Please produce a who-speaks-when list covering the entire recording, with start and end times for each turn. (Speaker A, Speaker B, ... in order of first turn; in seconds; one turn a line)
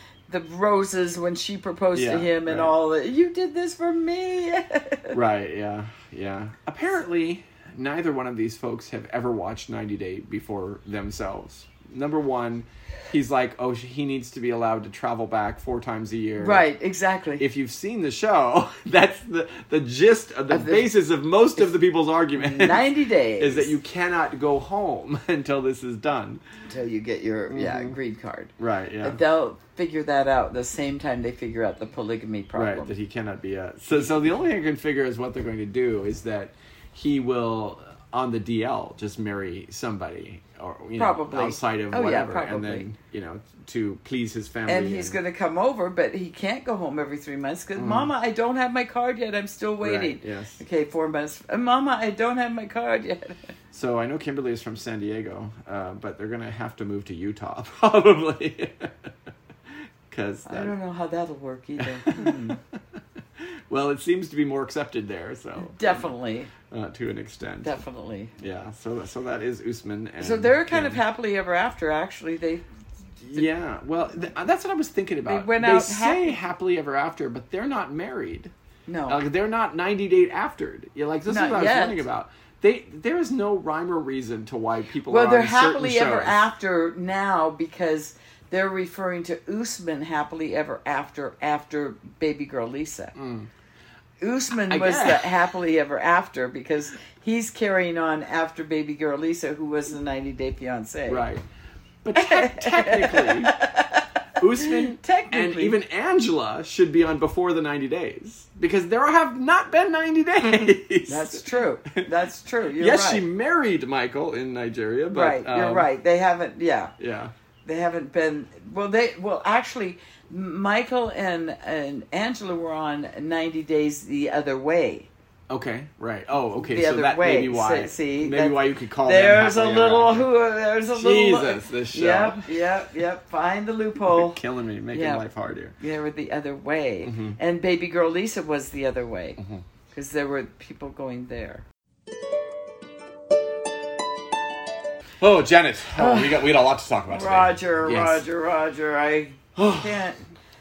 Speaker A: 0.3-5.2
Speaker B: 1.9-2.7
Speaker B: 5.1-16.7
Speaker A: 16.4-17.4
Speaker B: 17.4-26.4
Speaker A: 20.5-20.9
Speaker A: 22.4-23.7
Speaker A: 26.7-32.9
Speaker B: 27.5-28.0
Speaker B: 28.6-29.2
Speaker B: 32.5-45.2
Speaker A: 41.0-42.9
Speaker A: 44.7-53.5
Speaker B: 47.8-48.1
Speaker B: 49.8-50.6
Speaker B: 53.7-59.1
Speaker B: 60.1-60.7
Speaker A: 60.5-62.6
Speaker B: 61.8-62.6
Speaker B: 63.4-66.1
Speaker A: 65.6-66.5
Speaker B: 66.7-67.8
Speaker A: 67.6-68.3
Speaker B: 68.4-71.0
Speaker A: 70.2-72.6
Speaker B: 73.3-78.5
Speaker A: 75.2-76.3
Speaker A: 78.9-79.2
Speaker B: 79.1-86.5
Speaker A: 81.3-82.0
Speaker A: 85.0-93.1
Speaker B: 93.1-93.5
Speaker A: 94.2-101.2
Speaker B: 94.7-95.4
Speaker B: 101.1-101.4
Speaker B: 102.0-103.5
Speaker A: 102.1-104.1
Speaker B: 104.4-111.5
Speaker A: 104.6-105.8
Speaker A: 111.1-113.2
Speaker B: 112.8-115.9
Speaker A: 115.1-116.9
Speaker B: 117.0-117.3
Speaker A: 117.6-125.1
Speaker B: 125.5-130.3
Speaker A: 126.5-134.4
Speaker B: 130.9-132.5
Speaker B: 134.0-135.8
Speaker A: 134.9-135.2
Speaker A: 135.8-139.4
Speaker B: 137.0-137.4
Speaker B: 139.4-139.6
Speaker A: 139.9-141.6
Speaker B: 145.2-148.2
Speaker A: 146.0-146.5
Speaker A: 147.1-150.2
Speaker B: 149.6-150.1